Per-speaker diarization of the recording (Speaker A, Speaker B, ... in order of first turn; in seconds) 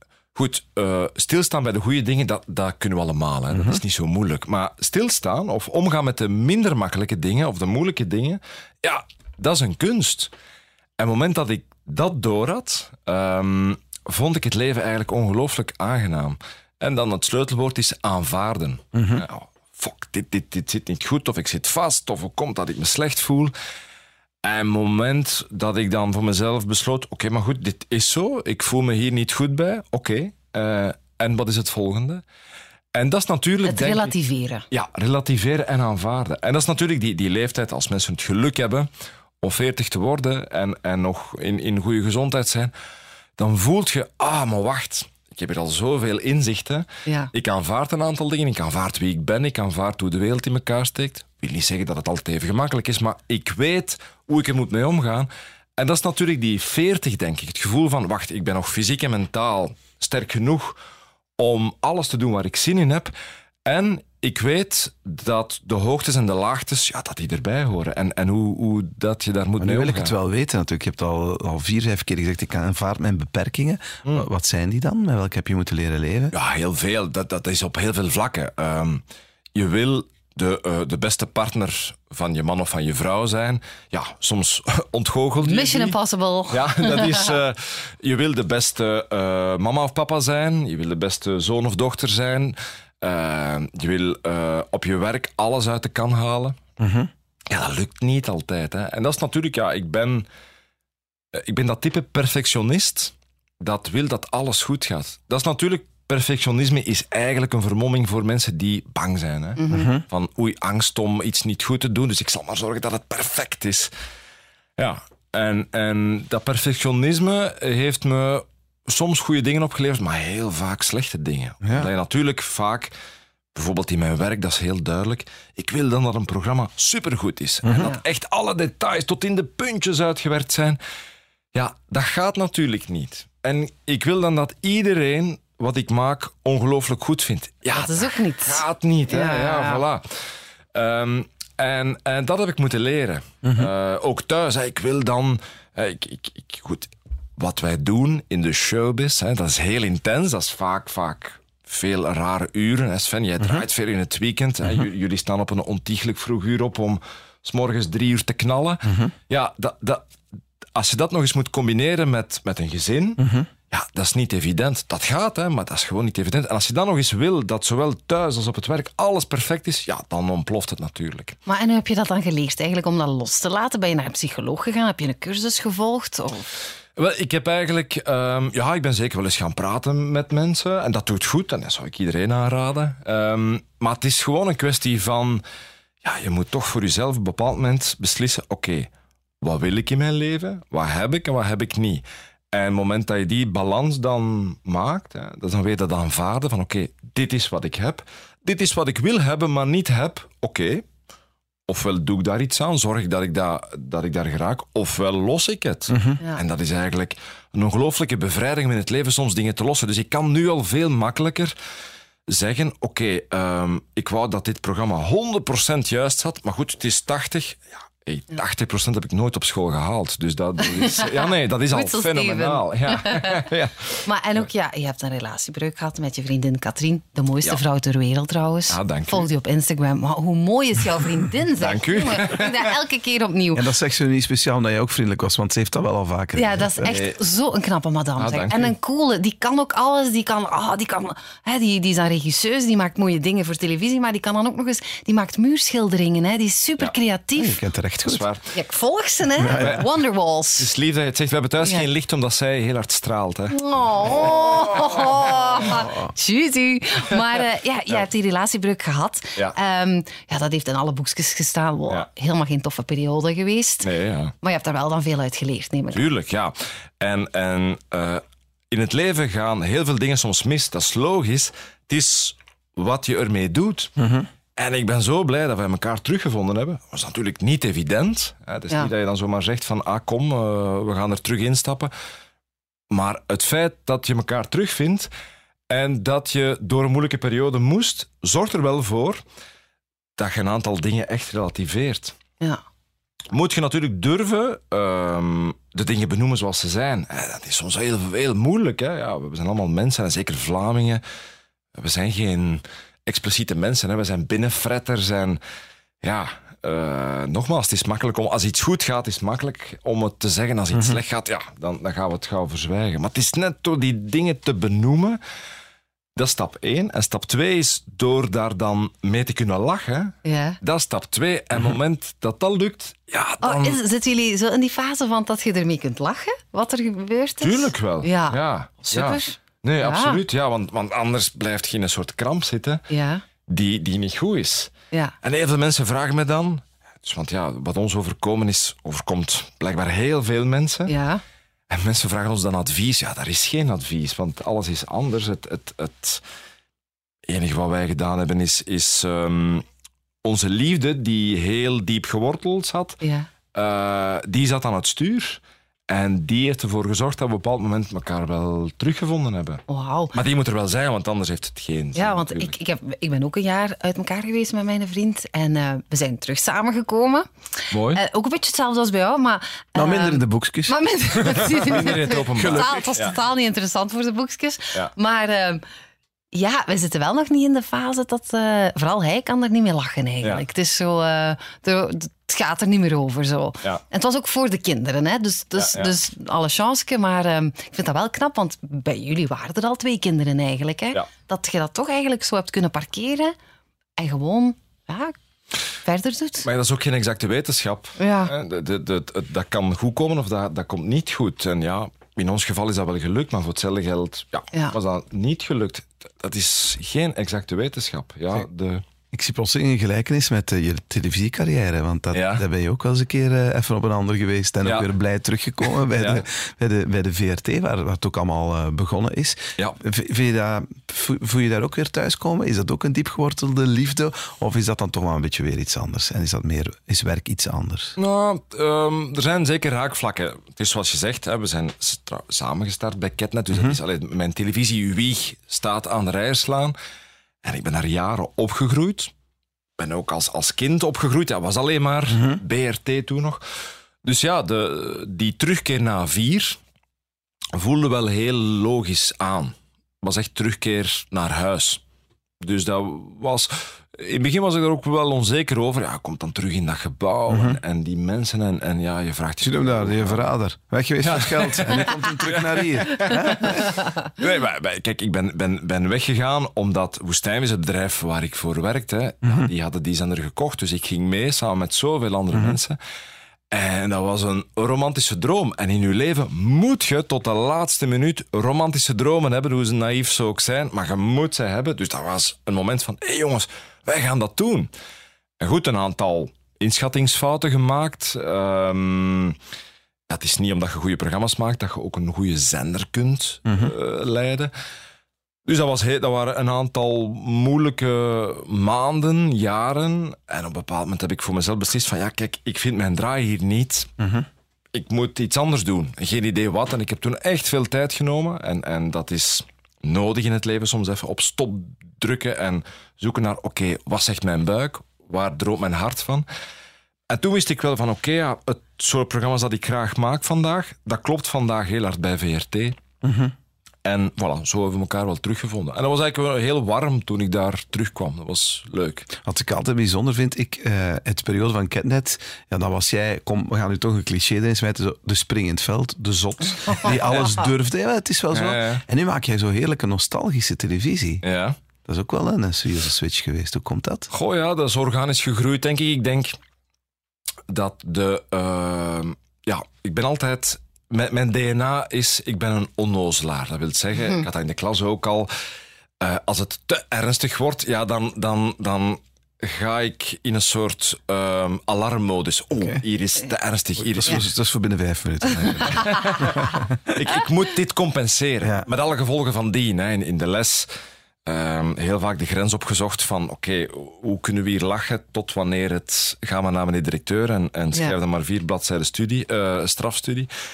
Speaker A: 0.3-10.3, 11.0-23.5, 24.4-32.2, 32.9-34.1, 34.7-38.9, 39.4-42.7, 43.4-60.8, 61.4-63.1, 63.7-70.1, 76.3-79.0, 79.5-86.0, 86.5-96.6, 97.5-100.3, 101.3-113.9, 114.8-122.9, 123.5-130.8, 131.5-160.0, 160.8-171.4, 177.0-185.4, 186.0-188.9, 189.4-200.8, 201.7-211.6, 212.3-224.1, 228.7-229.3, 231.6-232.7, 236.9-237.2, 238.2-238.7, 248.1-248.6, 249.5-249.9, 250.6-255.5, 263.8-264.3, 265.9-273.9, 274.6-281.9, 282.9-285.1, 285.7-289.2, 290.2-292.1, 293.3-301.0, 301.8-305.4, 306.0-315.2, 316.2-323.8, 327.4-332.8, 333.5-334.7, 335.2-340.9, 341.7-346.2, 347.3-349.6, 350.2-353.0, 353.5-362.5, 367.7-368.0, 371.6-373.2, 385.6-386.0, 396.4-408.8, 412.1-412.4, 414.6-414.9, 415.9-416.2, 428.0-436.8, 437.4-439.1, 439.8-443.4, 444.0-446.6, 447.5-451.8, 452.4-460.2, 461.0-472.8, 473.5-484.7, 485.4-489.4, 490.1-494.5, 495.5-503.9, 504.7-516.3, 517.1-522.8, 523.8-529.1, 536.8-537.3, 538.3-538.8, 541.2-541.6, 544.1-546.4, 547.5-555.3, 556.0-564.3, 565.7-566.3, 566.9-570.7, 571.3-580.3
Speaker B: 3.5-3.8, 18.9-19.3, 69.6-76.3, 96.8-97.1, 109.7-110.0, 121.6-121.9, 143.4-143.7, 158.8-159.1, 163.2-163.5, 205.9-206.2, 233.5-237.0, 247.4-248.2, 249.4-249.8, 274.0-274.3, 310.7-311.0, 369.8-371.7, 372.3-372.9, 409.1-427.9, 442.1-442.4, 457.3-457.6, 459.4-463.8, 469.2-469.5, 472.3-472.6, 493.5-493.7, 504.0-504.3, 523.0-523.3, 529.2-541.2, 541.9-544.1, 563.8-567.0, 568.4-568.7
Speaker C: 33.6-34.6, 47.1-47.3, 85.4-87.3, 109.6-109.9, 137.7-139.8, 171.5-176.5, 220.6-223.4, 224.1-233.7, 236.4-247.6, 248.5-250.7, 253.5-263.9, 264.4-266.0, 320.2-320.6, 323.4-330.2, 332.9-333.2, 340.9-341.2, 353.0-353.3, 359.7-360.1, 362.0-375.6, 376.3-393.3, 394.0-395.1, 395.8-396.5, 398.0-398.3, 565.8-566.1